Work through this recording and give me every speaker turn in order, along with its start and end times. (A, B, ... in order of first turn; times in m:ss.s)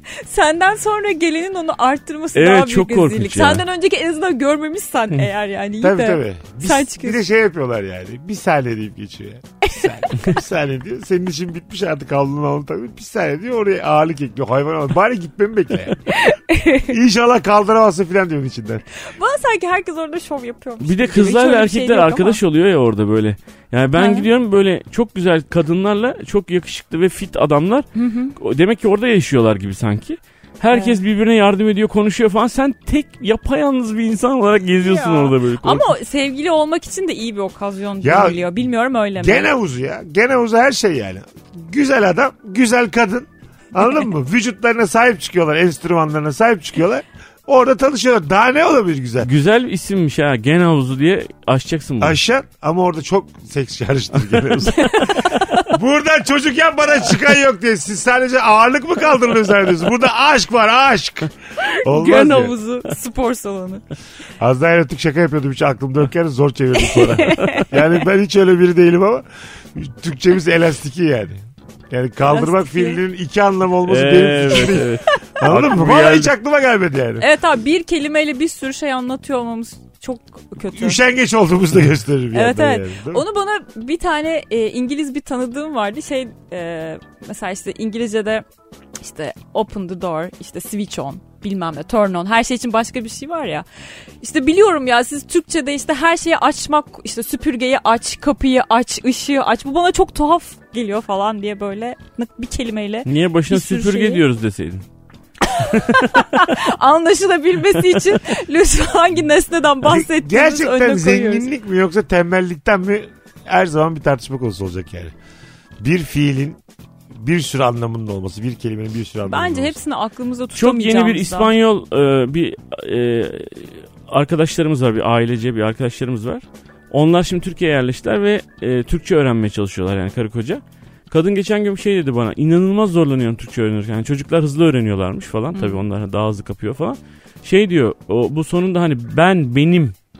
0:00.2-0:07.3 A
0:02.4-0:03.6 B
0:05.8-0:16.0 C
0:09.6-0:10.3 A
0:16.1-0:16.9 A
0:16.9-0:18.8 C
0:19.1-0:22.4 A
0:20.8-0:35.9 B
0:24.0-0:24.3 A
0:28.0-0:28.4 A
0:30.7-0:31.0 A
0:34.8-0:39.5 A
0:38.0-0:38.5 C
0:39.2-0:49.3 C
0:49.2-0:52.2 B
0:52.0-1:02.6 C
0:54.7-0:55.7 A
1:01.6-1:03.8 A
1:04.4-1:17.3 C
1:06.8-1:07.7 A
1:12.2-1:13.0 A
1:13.9-1:16.3 B
1:15.1-1:15.4 A
1:17.2-1:21.0 A
1:20.7-1:23.2 C
1:22.3-1:28.4 A
1:29.0-1:33.7 A
1:34.2-1:44.2 A
1:43.1-1:44.8 B
1:45.4-1:51.5 A
1:49.8-1:55.1 C
1:55.8-1:56.6 C
1:57.1-1:59.8 C
1:59.2-2:01.5 A
2:00.6-2:20.0 B
2:15.5-2:15.8 A